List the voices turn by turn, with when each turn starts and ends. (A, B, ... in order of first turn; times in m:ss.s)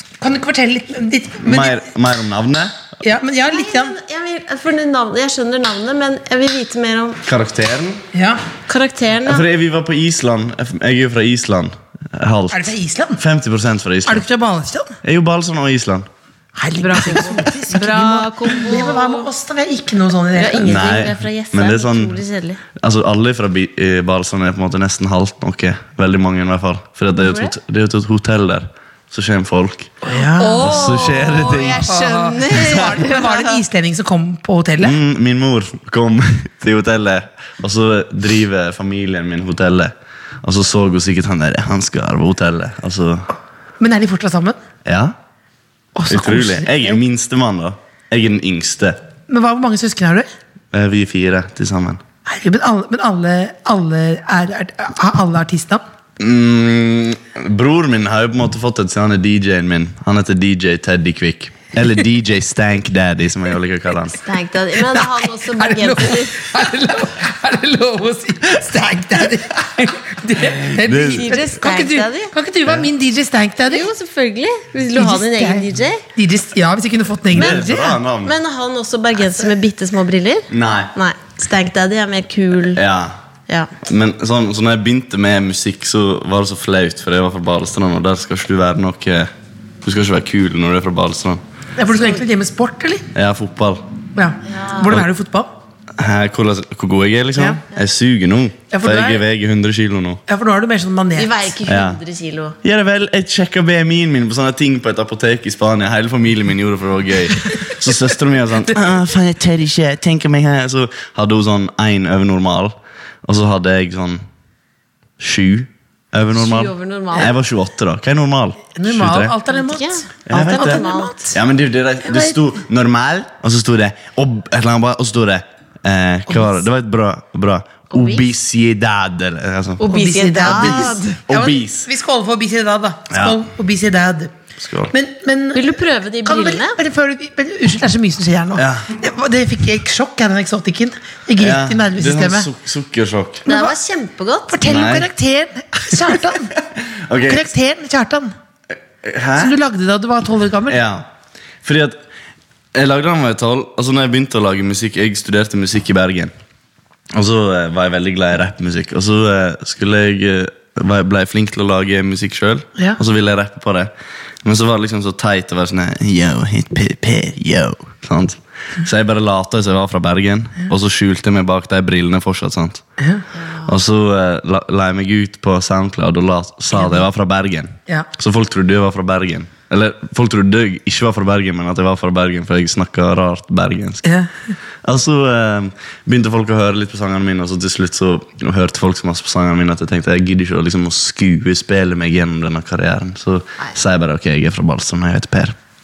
0:00.2-0:01.8 A
0:01.4-0:02.9 B
0:03.0-0:04.0 A
0:03.4-0:07.2 C
0:07.2-0:08.0 B
0:08.1-0:08.4 A
0:08.7-0:09.4 C
0:09.2-0:14.2 B
0:12.5-0:13.2 A
0:14.0-0:15.0 A
0:15.0-0:16.1 B
0:16.6-0:20.8 A
0:16.8-0:19.3 C
0:20.3-0:22.6 C
0:20.6-0:22.2 B
0:22.8-0:29.9 B
0:27.2-0:27.5 C
0:30.0-0:35.0 A
0:30.4-0:33.6 C
0:30.6-0:32.0 B
0:34.8-0:43.3 B
0:43.8-0:44.6 A
0:44.8-0:45.1 B
0:46.0-0:47.0 A
0:46.1-0:49.0 B
0:49.3-0:50.3 A
0:50.7-0:52.0 B
0:52.2-0:55.8 A
0:56.2-1:04.2 B
1:04.1-1:06.5 C
1:04.8-1:13.9 A
1:10.6-1:11.4 B
1:11.1-1:12.3 C
1:13.6-1:16.0 C
1:14.9-1:18.0 A
1:17.3-1:18.3 B
1:17.4-1:17.6 C
1:18.2-1:22.8 C
1:20.5-1:20.9 B
1:22.7-1:23.1 B
1:23.8-1:29.3 B
1:29.8-1:31.4 B
1:31.8-1:33.1 A
1:33.1-1:33.8 B
1:34.1-1:35.5 A
1:34.4-1:34.9 C
1:36.0-1:40.2 B
1:38.7-1:39.2 A
1:40.3-1:41.5 A
1:41.2-1:42.6 C
1:41.6-1:42.0 B
1:42.6-1:54.2 B
1:55.2-1:59.3 B
1:56.3-1:57.3 C
1:58.7-2:01.4 A
1:59.5-2:01.3 C
2:00.3-2:09.8 B
2:02.0-2:02.4 A
2:06.3-2:06.6 A
2:07.9-2:08.3 C
2:09.8-2:11.2 C
2:09.8-2:14.3 A
2:10.4-2:11.9 B
2:13.1-2:13.4 B
2:14.6-2:14.9 B
2:14.9-2:22.5 A
2:15.5-2:16.8 C
2:18.6-2:18.9 B
2:21.4-2:23.4 B
2:23.5-2:23.7 A
2:23.5-2:24.6 C
2:24.5-2:26.5 A
2:24.6-2:25.1 B
2:26.8-2:27.5 B
2:27.2-2:28.3 A
2:29.0-2:29.5 B
2:29.4-2:30.8 A
2:30.7-2:31.1 B
2:31.6-2:32.0 B
2:32.7-2:36.3 B
2:37.1-2:43.9 B
2:44.4-2:52.8 B
2:53.0-2:53.2 A
2:53.4-2:53.7 C
2:53.6-3:04.1 B
2:56.7-2:57.0 A
3:04.0-3:04.3 A
3:04.8-3:15.6 B